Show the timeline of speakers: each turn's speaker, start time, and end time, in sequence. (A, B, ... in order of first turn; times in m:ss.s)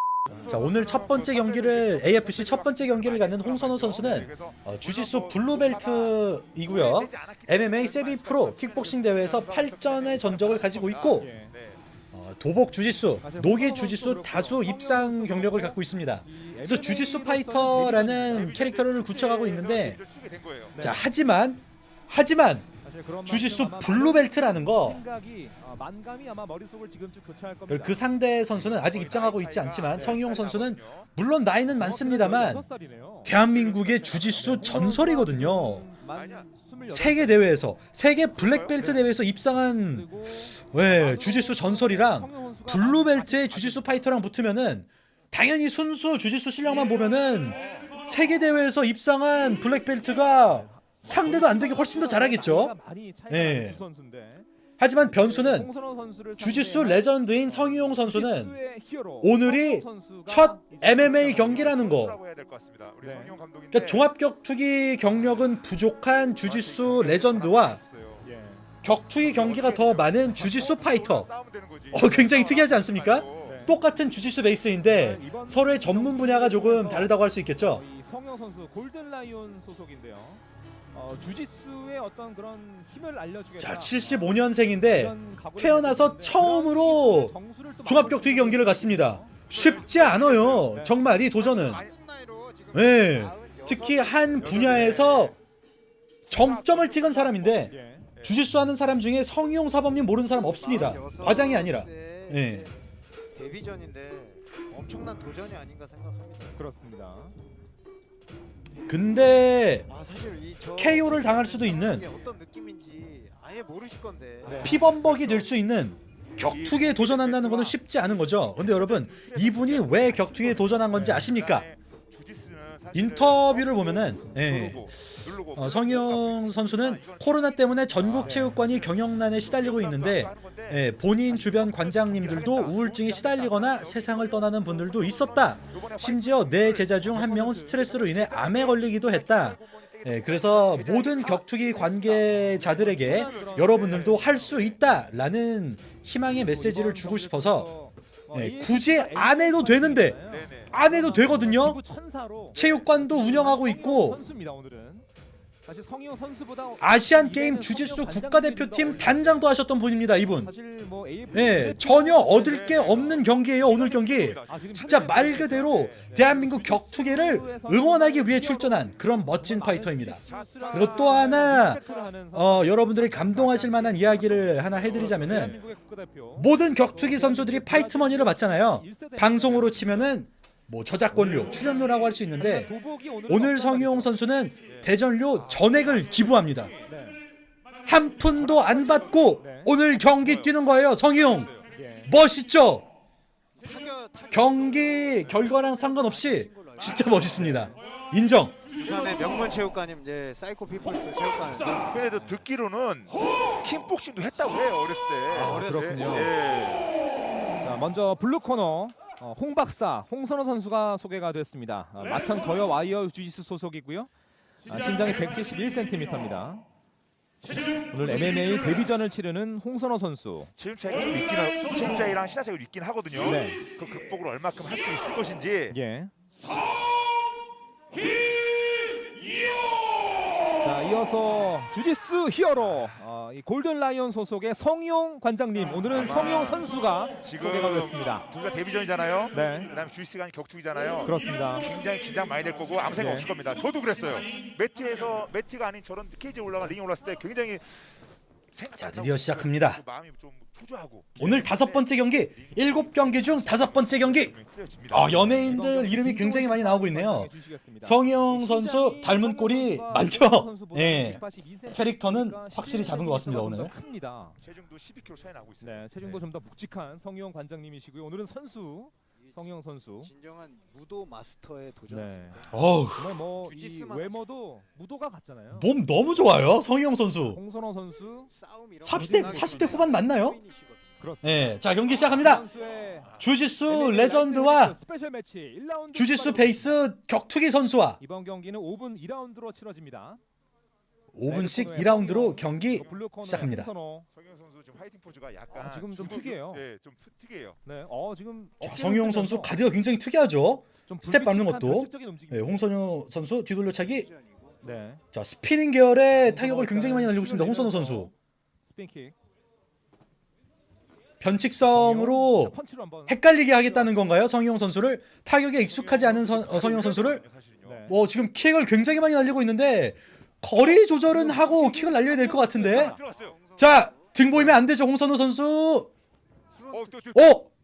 0:00.3-0:11.8 A
0:00.5-0:11.3 B
0:11.2-0:11.5 C
0:12.1-0:20.0 B
0:13.2-0:18.6 C
0:18.3-0:20.9 A
0:20.7-0:21.0 C
0:20.8-0:22.7 B
0:22.8-0:28.0 C
0:23.2-0:25.0 B
0:27.7-0:32.6 B
0:28.5-0:31.1 A
0:31.7-0:33.4 C
0:33.2-0:35.9 B
0:33.5-0:34.6 A
0:34.1-0:37.6 C
0:36.1-0:36.5 A
0:36.9-0:52.8 B
0:38.4-0:39.0 A
0:39.8-0:44.1 C
0:47.5-0:48.0 A
0:50.1-1:01.7 C
0:53.3-0:53.8 B
0:54.8-0:55.7 B
0:56.4-0:58.6 B
0:59.2-1:02.2 B
1:01.4-1:04.1 A
1:03.0-1:03.4 C
1:03.7-1:07.8 B
1:06.4-1:08.3 A
1:08.2-1:08.7 C
1:08.8-1:11.3 B
1:09.2-1:13.6 A
1:11.9-1:17.8 B
1:13.4-1:13.8 C
1:14.8-1:29.4 C
1:23.6-1:27.3 B
1:27.8-1:31.8 B
1:29.5-1:30.8 A
1:30.6-1:31.0 C
1:31.4-1:31.9 A
1:31.4-1:34.9 D
1:32.7-1:35.3 B
1:34.4-1:35.4 A
1:36.3-1:38.4 A
1:36.3-1:42.7 B
1:37.7-1:38.1 C
1:40.4-1:42.7 D
1:43.4-1:46.6 D
1:46.6-1:47.4 C
1:48.9-1:49.9 B
1:49.9-1:54.9 D
1:50.8-1:52.0 B
1:54.4-1:54.9 C
1:54.6-2:01.7 B
1:55.0-1:55.4 A
1:56.4-2:24.8 A
2:00.9-2:01.3 C
2:02.9-2:27.7 B
2:08.1-2:08.6 C
2:22.7-2:24.5 C
2:26.2-2:35.0 C
2:28.3-2:30.2 B
2:30.3-2:30.8 A
2:30.7-2:31.8 B
2:32.5-2:34.2 B
2:35.6-2:39.5 C
2:36.8-2:40.5 B
2:40.2-2:43.3 C
2:41.3-2:51.8 B
2:42.4-2:45.2 A
2:44.5-3:00.2 C
2:50.2-2:51.6 A
2:52.3-2:55.6 B
2:56.4-3:02.7 B
3:01.1-3:04.1 C
3:03.3-3:06.7 B
3:04.6-3:06.9 A
3:06.9-3:07.2 C
3:07.9-3:11.5 B
3:08.2-3:09.4 A
3:09.4-3:09.7 C
3:10.0-3:10.6 A
3:11.1-3:11.7 A
3:11.7-3:12.1 C
3:12.1-3:12.9 B
3:13.6-3:17.7 D
3:14.3-3:18.6 B
3:18.7-3:22.4 D
3:21.8-3:26.9 A
3:25.3-3:26.3 C
3:25.3-3:26.4 D
3:27.6-3:34.1 C
3:34.7-3:36.6 C
3:37.9-3:40.5 C
3:40.6-3:45.8 A
3:43.1-3:43.6 C
3:45.7-3:46.1 C
3:50.6-3:58.2 C
3:55.7-4:07.7 A
3:59.3-3:59.7 C
4:01.0-4:01.7 C
4:02.9-4:03.3 C
4:08.5-4:15.6 A
4:08.8-4:09.8 B
4:11.2-4:11.5 C
4:11.2-4:14.3 B
4:14.9-4:23.7 B
4:15.4-4:24.4 C
4:24.4-4:26.2 A
4:25.6-4:30.1 C
4:30.0-4:32.7 D
4:31.9-4:35.7 C
4:32.5-4:33.2 B
4:33.4-4:34.5 D
4:35.6-4:37.4 B
4:37.2-4:38.3 C
4:38.3-4:41.0 D
4:38.8-4:40.4 B
4:38.9-4:39.9 C
4:41.0-4:46.8 C
4:41.2-4:42.4 B
4:43.2-4:44.8 B
4:45.9-4:48.0 B
4:48.0-4:50.2 C
4:51.1-4:53.7 B
4:51.3-4:54.1 C
4:54.1-4:57.6 A
4:55.5-4:56.6 C
4:57.6-4:59.7 C
4:58.6-5:04.1 B
5:00.9-5:02.6 C
5:03.8-5:04.6 D
5:04.6-5:05.0 C
5:05.1-5:08.1 B
5:06.1-5:08.1 C
5:08.7-5:09.2 C
5:11.2-5:12.6 B
5:11.6-5:14.0 C
5:13.1-5:17.2 B
5:15.6-5:17.9 A
5:17.6-5:18.0 C
5:17.9-5:23.0 B
5:21.1-5:22.9 C
5:22.5-5:23.4 A
5:22.9-5:24.1 D
5:23.6-5:25.9 B
5:24.3-5:24.6 C
5:26.6-5:27.0 D
5:26.7-5:27.4 A
5:27.1-5:27.5 B